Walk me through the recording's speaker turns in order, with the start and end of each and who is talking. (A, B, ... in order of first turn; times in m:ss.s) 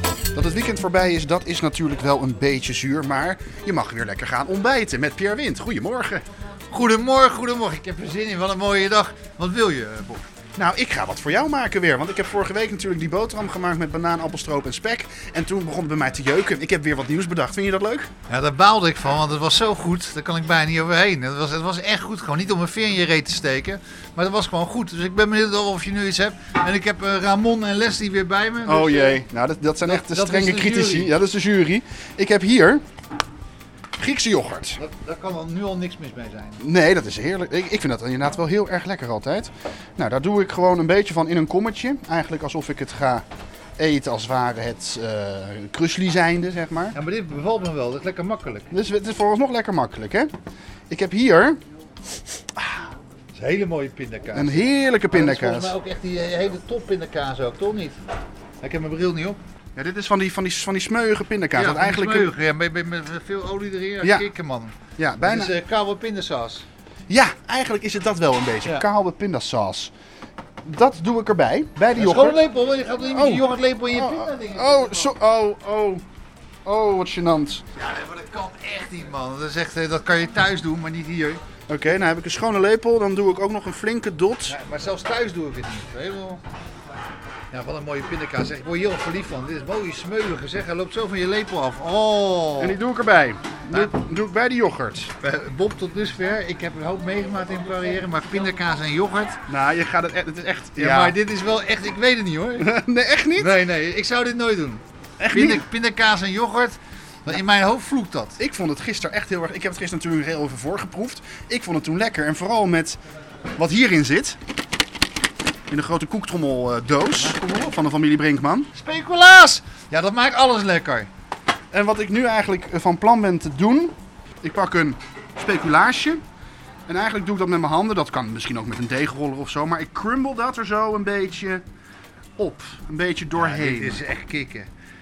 0:00.3-0:06.2 A
0:06.7-0:10.2 B
0:10.6-0:18.1 A
0:18.3-0:29.2 B
0:28.6-0:32.8 A
0:29.8-0:31.1 B
0:34.0-0:34.8 A
0:34.8-0:36.6 B
0:36.6-0:43.2 A
0:43.8-0:47.0 A
0:46.9-0:48.7 B
0:48.7-0:50.3 A
0:50.9-0:51.6 A
0:53.3-0:58.0 B
0:54.3-0:55.7 A
0:58.6-0:59.4 B
0:59.8-1:02.3 A
1:01.5-1:06.6 B
1:04.0-1:04.3 A
1:05.0-1:05.5 A
1:07.1-1:09.9 A
1:10.6-1:12.4 A
1:11.9-1:15.1 B
1:13.1-1:16.0 A
1:16.6-1:17.6 A
1:17.8-1:21.4 B
1:21.7-1:24.6 A
1:24.5-1:26.4 B
1:27.5-1:32.8 B
1:32.6-1:35.1 A
1:35.2-1:39.4 B
1:39.5-1:41.2 A
1:40.8-1:42.7 B
1:42.6-1:43.5 A
1:43.4-1:48.4 B
1:45.2-1:45.6 A
1:48.4-1:53.0 A
1:53.6-1:54.4 A
1:55.7-1:58.7 A
1:58.7-2:01.1 B
2:01.7-2:06.2 A
2:06.9-2:11.6 A
2:12.4-2:14.0 A
2:13.3-2:14.7 B